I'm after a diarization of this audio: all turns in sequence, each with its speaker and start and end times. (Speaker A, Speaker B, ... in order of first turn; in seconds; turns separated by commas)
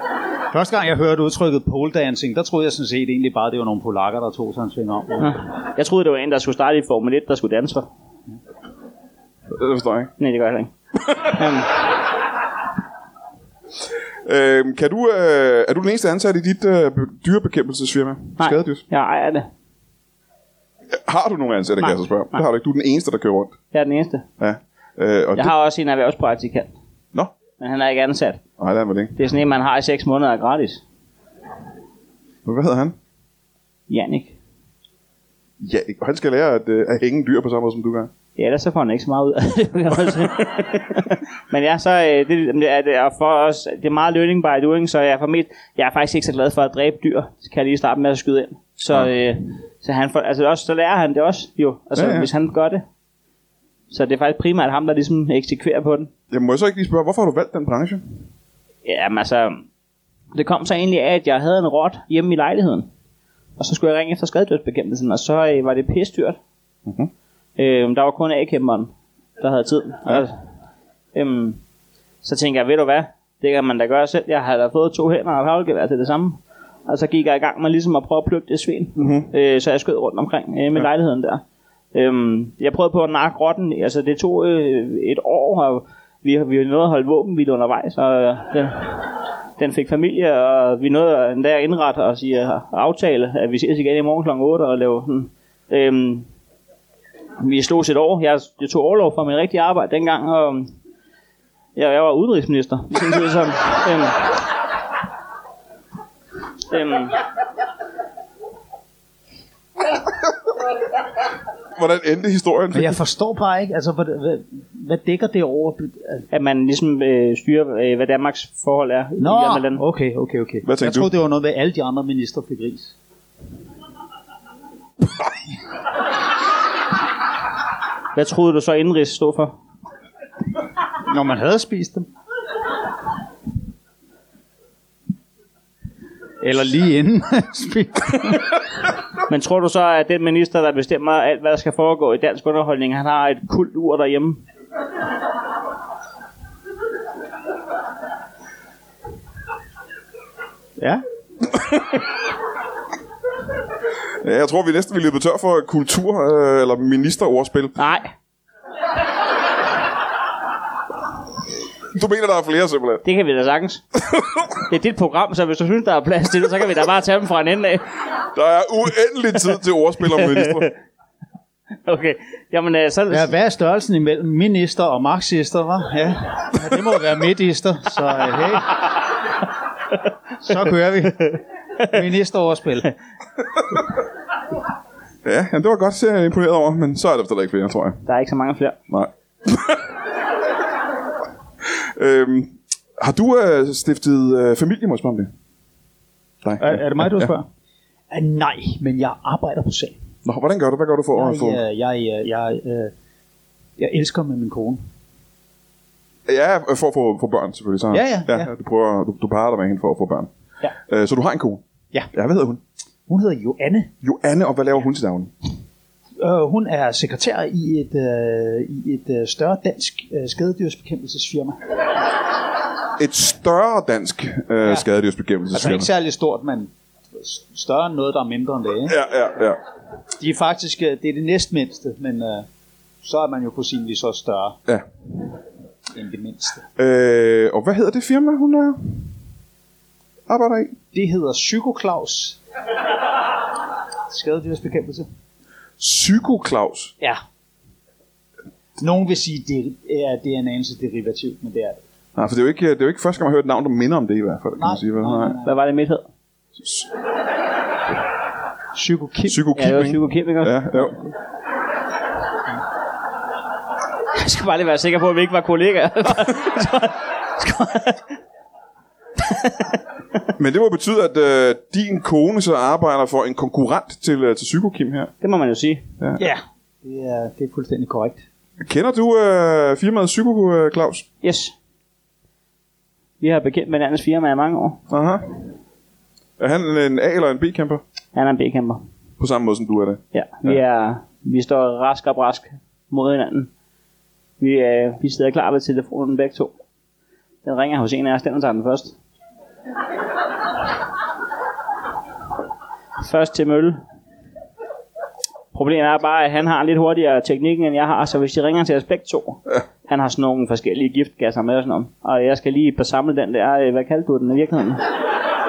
Speaker A: 0.5-5.4, Speaker B: 5.2-7.9, Speaker C: 9.5-10.1, Speaker B: 10.2-11.8, Speaker C: 14.2-18.8, Speaker B: 18.4-19.5, Speaker C: 20.9-23.6, Speaker B: 21.8-22.4, Speaker B: 23.7-24.3, Speaker C: 24.4-25.5, Speaker B: 25.4-26.7, Speaker B: 27.6-28.4, Speaker C: 28.6-29.1, Speaker B: 29.2-30.8, Speaker C: 32.5-33.0, Speaker B: 33.9-34.4, Speaker C: 35.6-38.1, Speaker B: 38.4-52.8, Speaker C: 52.0-52.3, Speaker B: 53.9-56.1, Speaker C: 56.3-58.2, Speaker B: 58.9-59.6, Speaker B: 60.3-62.9, Speaker B: 63.6-66.4, Speaker B: 67.6-70.4, Speaker B: 71.1-71.6, Speaker B: 72.2-81.4, Speaker C: 79.0-79.3, Speaker B: 81.9-96.3, Speaker B: 97.4-100.7, Speaker B: 101.8-104.3, Speaker B: 106.7-107.2, Speaker C: 111.8-113.0, Speaker A: 112.7-116.3, Speaker B: 116.3-119.8, Speaker A: 119.2-123.0, Speaker C: 120.7-121.1, Speaker B: 128.2-129.5, Speaker A: 131.1-132.1, Speaker A: 136.4-138.5, Speaker B: 139.3-144.4, Speaker C: 154.2-157.8, Speaker B: 157.8-158.1, Speaker C: 161.9-163.0, Speaker B: 163.1-163.8, Speaker B: 164.7-167.8, Speaker C: 168.3-170.7, Speaker B: 170.2-170.7, Speaker B: 171.8-173.3, Speaker A: 173.1-178.8, Speaker A: 180.4-182.9, Speaker C: 185.2-188.0, Speaker B: 188.1-188.8, Speaker C: 188.9-189.9, Speaker C: 191.7-195.3, Speaker C: 196.4-197.3, Speaker A: 196.6-197.5, Speaker A: 198.1-199.9, Speaker C: 200.2-201.6, Speaker A: 201.1-202.9, Speaker A: 203.8-204.8, Speaker C: 206.3-210.3, Speaker A: 207.9-208.5, Speaker C: 210.9-212.6, Speaker A: 213.1-213.9, Speaker C: 214.0-215.3, Speaker A: 216.2-221.6, Speaker C: 223.0-225.9, Speaker A: 225.5-229.0, Speaker C: 228.9-229.6, Speaker A: 230.2-232.5, Speaker A: 233.0-234.6, Speaker A: 235.9-236.7, Speaker C: 236.8-239.1, Speaker C: 240.3-240.8, Speaker A: 240.9-242.4, Speaker A: 244.1-245.1, Speaker C: 245.8-246.9, Speaker A: 248.8-251.8, Speaker C: 252.2-255.4, Speaker A: 254.6-255.6, Speaker B: 255.4-256.1, Speaker C: 256.6-256.9, Speaker A: 258.7-259.4, Speaker C: 259.3-261.0, Speaker B: 259.6-260.9, Speaker B: 264.2-268.1, Speaker B: 269.2-269.6, Speaker C: 270.4-275.1, Speaker B: 275.2-275.8, Speaker A: 276.2-278.2, Speaker C: 278.6-281.1, Speaker B: 281.2-281.5, Speaker B: 283.2-284.8, Speaker C: 284.9-285.5, Speaker C: 286.4-287.8, Speaker B: 288.1-288.8, Speaker C: 289.2-290.6, Speaker B: 290.1-293.5, Speaker B: 294.4-296.5, Speaker B: 297.4-298.9, Speaker B: 303.0-303.8, Speaker B: 305.5-314.9